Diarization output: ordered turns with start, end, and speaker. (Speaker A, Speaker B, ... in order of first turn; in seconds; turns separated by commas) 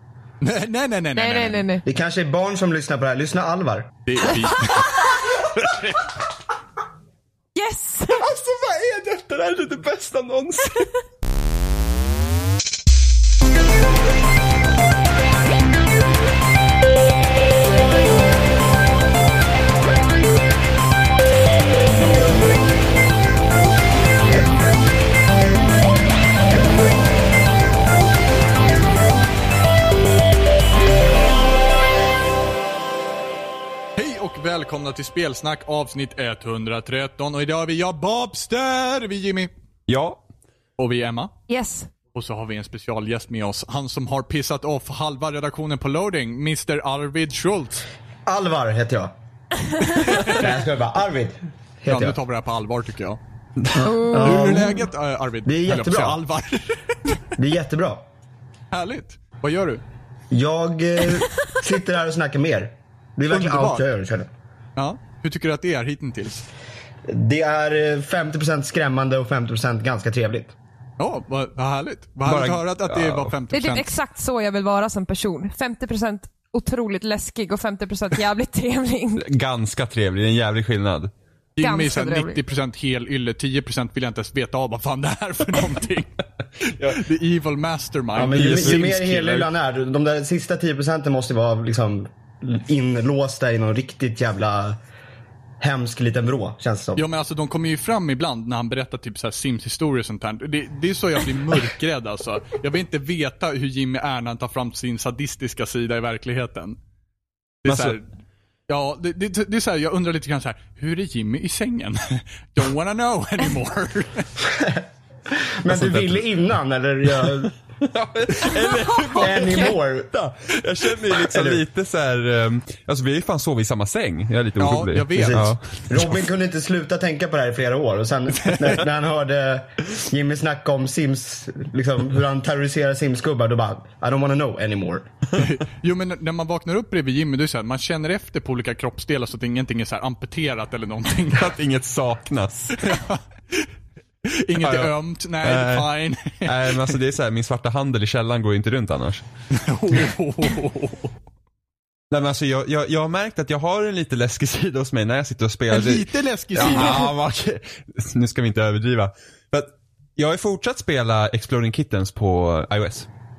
Speaker A: 0.4-1.7, Speaker B: 1.1-1.8, Speaker C: 1.8-3.9, Speaker A: 4.0-5.0, Speaker B: 4.5-5.3, Speaker B: 7.5-8.2, Speaker C: 8.2-8.9, Speaker D: 8.6-10.8, Speaker A: 34.0-39.5, Speaker D: 39.9-40.2, Speaker A: 40.8-41.3, Speaker B: 41.5-41.9, Speaker A: 42.1-47.8, Speaker C: 48.2-49.1, Speaker C: 50.0-52.2, Speaker A: 51.9-53.2, Speaker D: 53.6-53.9, Speaker C: 53.7-54.9, Speaker B: 53.7-54.5, Speaker A: 54.1-57.2, Speaker C: 55.5-56.2, Speaker C: 57.4-58.0, Speaker A: 58.7-59.8, Speaker C: 60.3-64.3, Speaker A: 63.3-63.9, Speaker A: 64.8-66.5, Speaker C: 67.1-70.5, Speaker A: 71.0-73.9, Speaker D: 72.2-73.3, Speaker B: 73.5-79.2, Speaker D: 79.2-81.1, Speaker A: 81.6-89.5, Speaker B: 81.6-82.4, Speaker C: 88.1-94.8, Speaker D: 88.3-88.9, Speaker C: 95.6-97.0, Speaker A: 96.9-106.8, Speaker A: 107.6-108.0, Speaker D: 107.7-108.0, Speaker A: 108.7-114.3, Speaker C: 114.5-117.6, Speaker D: 115.7-116.2, Speaker D: 117.2-126.2, Speaker C: 119.1-120.2, Speaker C: 121.2-121.6, Speaker A: 124.6-125.5, Speaker C: 125.2-135.1, Speaker A: 128.4-128.8, Speaker A: 135.3-141.5, Speaker D: 141.3-142.8, Speaker A: 142.8-143.7, Speaker A: 144.2-146.9, Speaker D: 144.5-149.2, Speaker A: 149.5-151.1, Speaker D: 152.1-163.1, Speaker A: 155.7-157.1